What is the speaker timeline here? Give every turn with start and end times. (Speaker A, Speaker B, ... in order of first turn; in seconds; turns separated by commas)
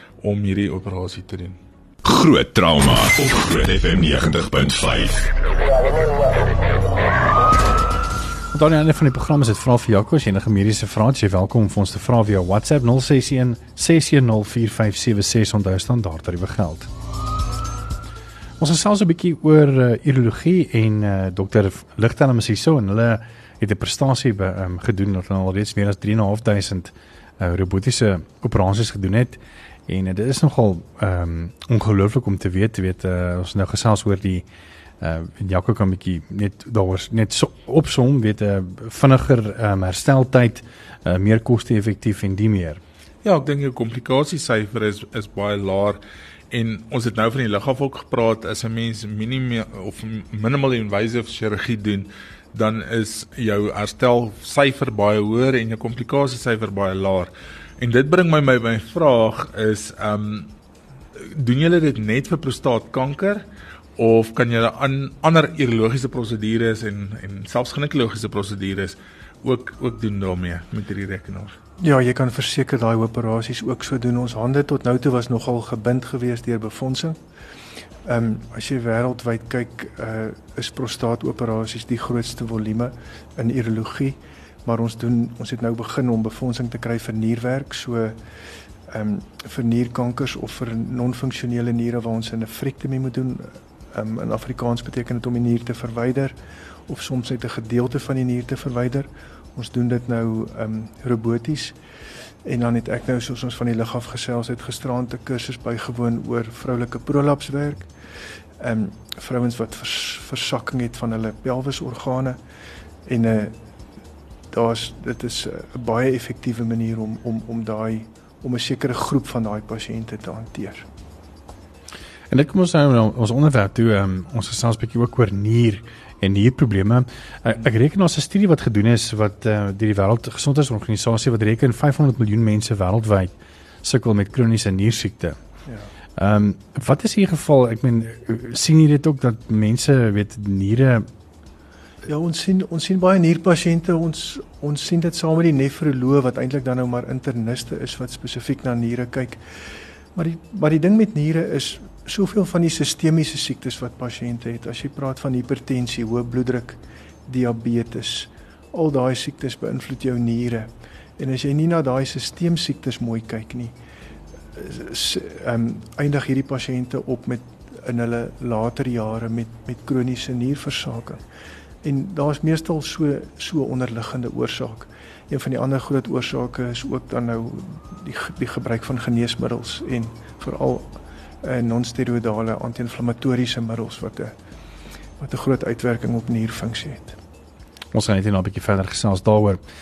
Speaker A: 0.2-1.6, Speaker B: 2.0-5.3, Speaker C: 8.5-16.9, Speaker C: 18.6-34.5, Speaker C: 35.0-42.8, Speaker A: 43.2-46.0, Speaker A: 46.5-60.5, Speaker A: 61.2-63.4, Speaker A: 64.0-71.5, Speaker D: 71.8-77.2, Speaker D: 78.0-88.2, Speaker D: 88.9-96.3, Speaker D: 96.9-101.7, Speaker D: 102.4-107.9, Speaker D: 108.6-112.4, Speaker D: 113.0-113.5, Speaker D: 114.5-120.8, Speaker C: 122.3-135.4, Speaker C: 136.2-141.1, Speaker D: 142.1-149.4, Speaker D: 150.1-163.7, Speaker D: 164.6-171.2, Speaker D: 171.8-180.9, Speaker D: 181.4-184.3, Speaker D: 185.2-187.2, Speaker C: 187.9-189.6